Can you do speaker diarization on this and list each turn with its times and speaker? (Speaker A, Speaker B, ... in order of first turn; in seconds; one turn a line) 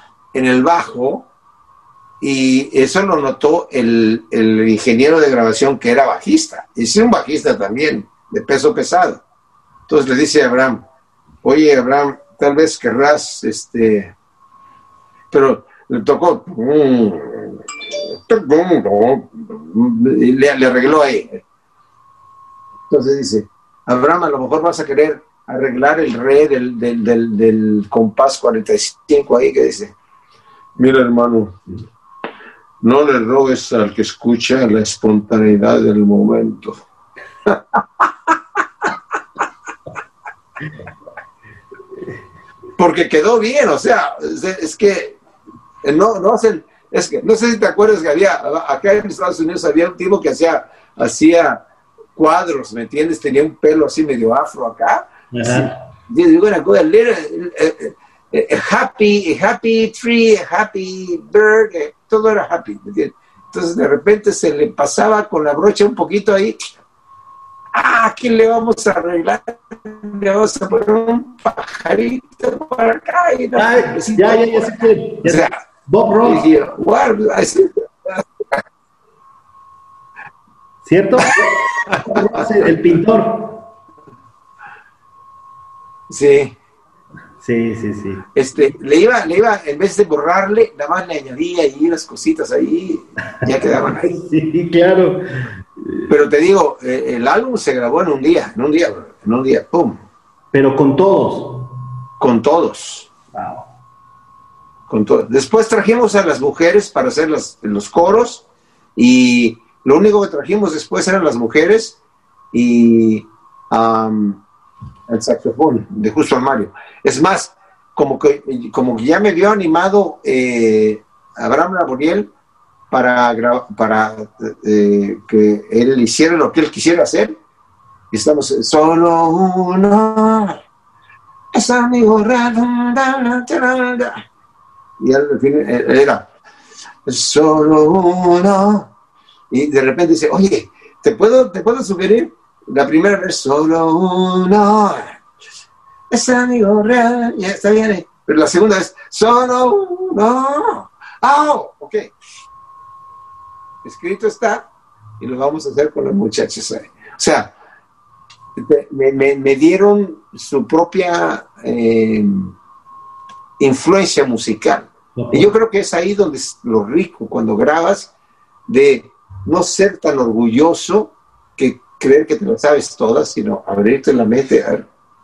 Speaker A: 0.3-1.3
Speaker A: 2.2-9.2
Speaker A: 9.9-10.8
Speaker A: 11.4-14.1
Speaker A: 15.3-21.4
Speaker A: 22.9-29.9
Speaker A: 30.8-31.6
Speaker A: 32.8-36.8
Speaker A: 37.5-38.0
Speaker A: 42.8-45.2
Speaker A: 45.8-51.6
Speaker A: 52.1-66.6
Speaker B: 55.3-55.8
Speaker A: 67.7-75.5
Speaker B: 73.5-76.5
Speaker A: 76.2-78.6
Speaker B: 80.8-83.7
Speaker A: 81.8-82.8
Speaker A: 86.1-86.5
Speaker B: 87.4-88.3
Speaker A: 88.3-94.1
Speaker B: 93.6-96.1
Speaker A: 96.1-100.0
Speaker B: 100.5-101.6
Speaker A: 102.2-103.1
Speaker B: 103.3-103.7
Speaker A: 104.9-108.4
Speaker A: 109.0-112.0
Speaker A: 112.5-114.4
Speaker A: 115.1-122.3
Speaker A: 122.9-127.4
Speaker A: 128.1-130.6
Speaker A: 131.5-134.2
Speaker A: 135.0-136.3
Speaker A: 137.0-138.9
Speaker A: 139.5-145.2
Speaker A: 146.1-152.1
Speaker A: 153.8-154.7
Speaker A: 155.2-157.5
Speaker A: 158.6-162.5
Speaker A: 163.6-168.1
Speaker B: 165.2-165.5
Speaker A: 168.7-174.8